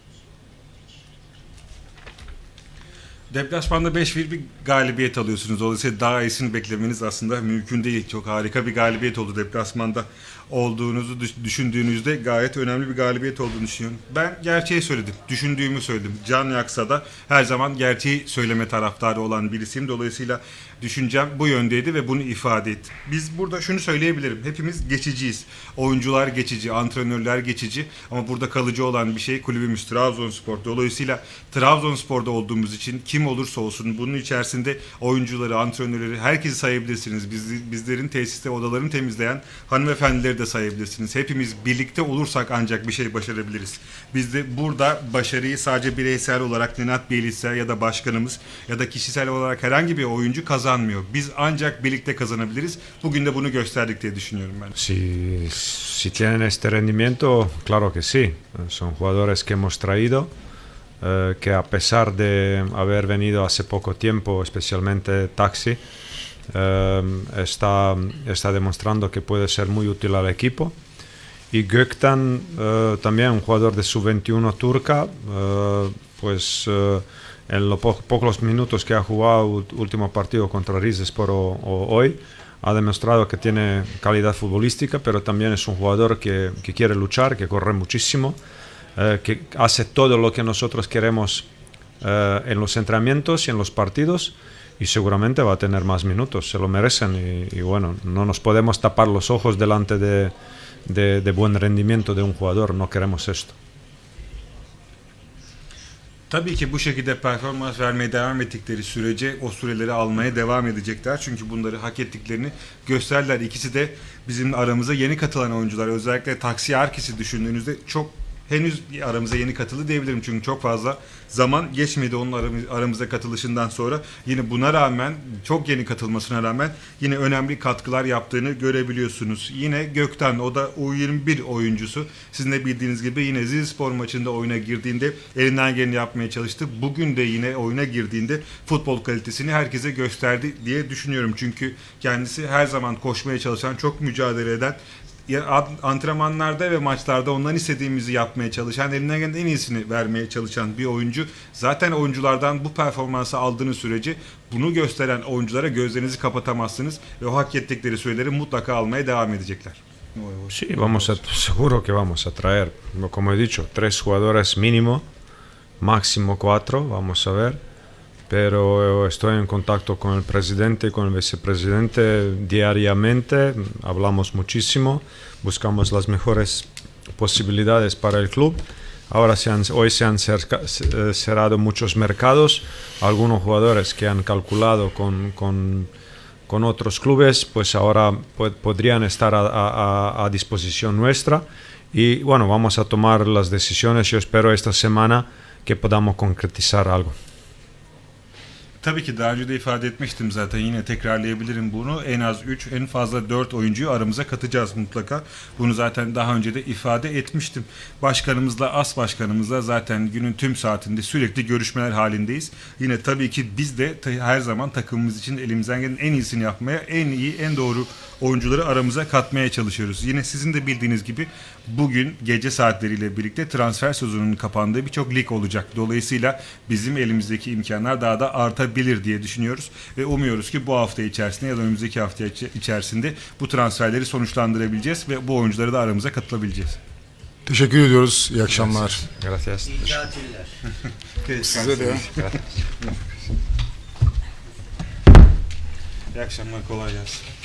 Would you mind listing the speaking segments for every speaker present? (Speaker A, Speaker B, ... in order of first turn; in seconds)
Speaker A: 3.3-54.7, 106.3-160.6, 198.8-236.8, 241.2-242.3, 246.1-247.3
Speaker B: 54.8-60.3, 61.0-65.8, 66.5-70.8, 71.5-88.4, 89.0-91.5, 92.0-100.3, 100.9-103.6, 160.5-165.0, 165.8-167.6, 168.3-185.9, 186.5-197.2, 239.1-240.3, 242.1-242.4
Speaker C: 237.5-239.0, 241.5-242.1